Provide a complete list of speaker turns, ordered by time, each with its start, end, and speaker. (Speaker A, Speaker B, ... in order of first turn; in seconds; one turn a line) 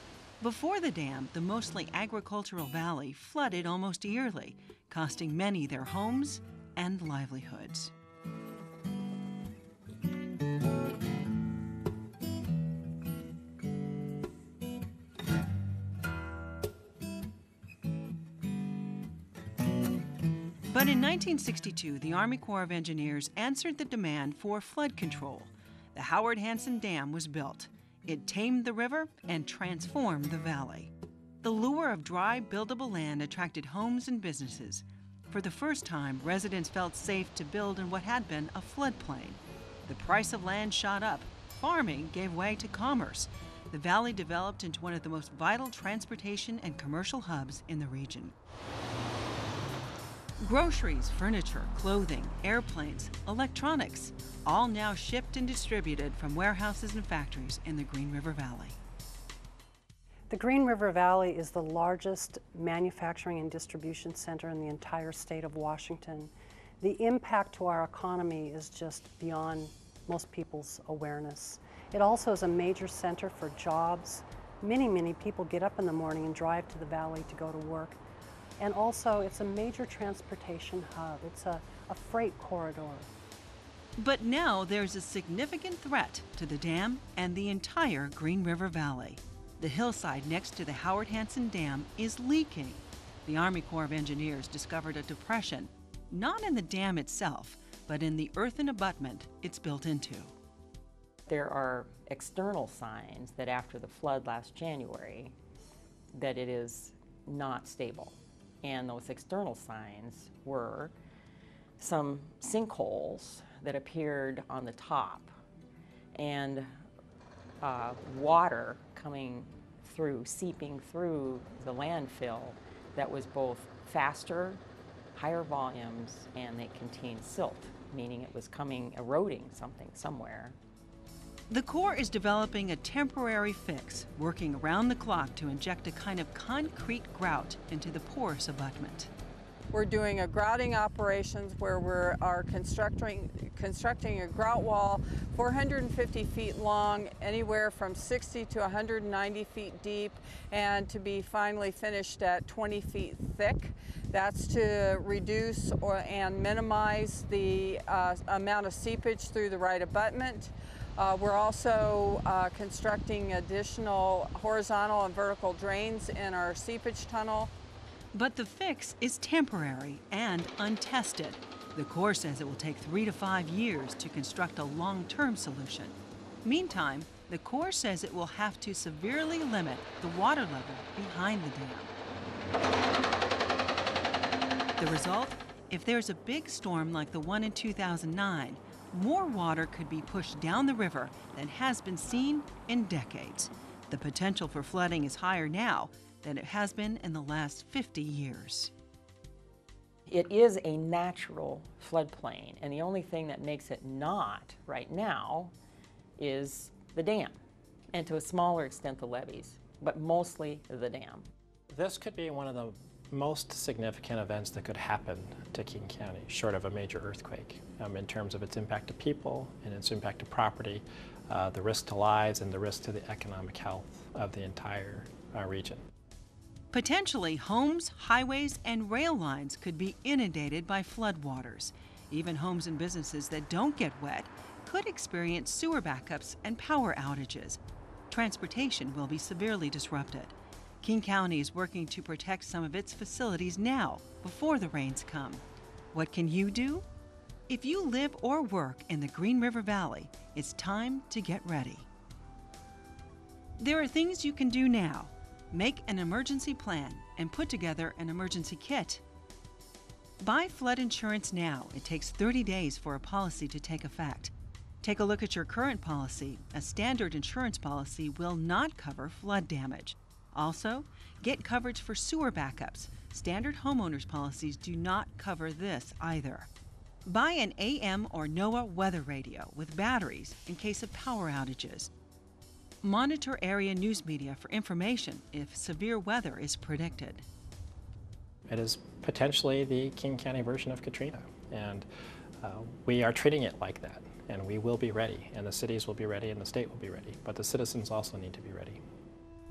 Speaker A: 0.4-7.9
Speaker A: 20.7-30.9
Speaker A: 31.4-48.4
Speaker A: 50.4-58.8
Speaker B: 60.3-78.0
Speaker B: 78.6-83.1
Speaker A: 84.0-100.3
Speaker C: 101.3-105.3
Speaker C: 106.1-110.9
Speaker C: 111.8-115.3
Speaker C: 116.1-116.7
Speaker C: 117.6-124.6
Speaker C: 125.1-130.6
Speaker A: 131.5-139.1
Speaker D: 139.7-167.5
Speaker A: 168.1-181.9
Speaker A: 184.8-198.7
Speaker C: 200.1-205.5
Speaker C: 206.2-207.4
Speaker C: 207.9-211.2
Speaker E: 211.7-225.8
Speaker A: 226.7-246.8
Speaker A: 247.5-251.9
Speaker A: 253.6-259.0
Speaker A: 260.2-276.5
Speaker A: 277.1-281.9
Speaker A: 282.8-287.2
Speaker E: 288.5-291.9
Speaker E: 292.4-298.8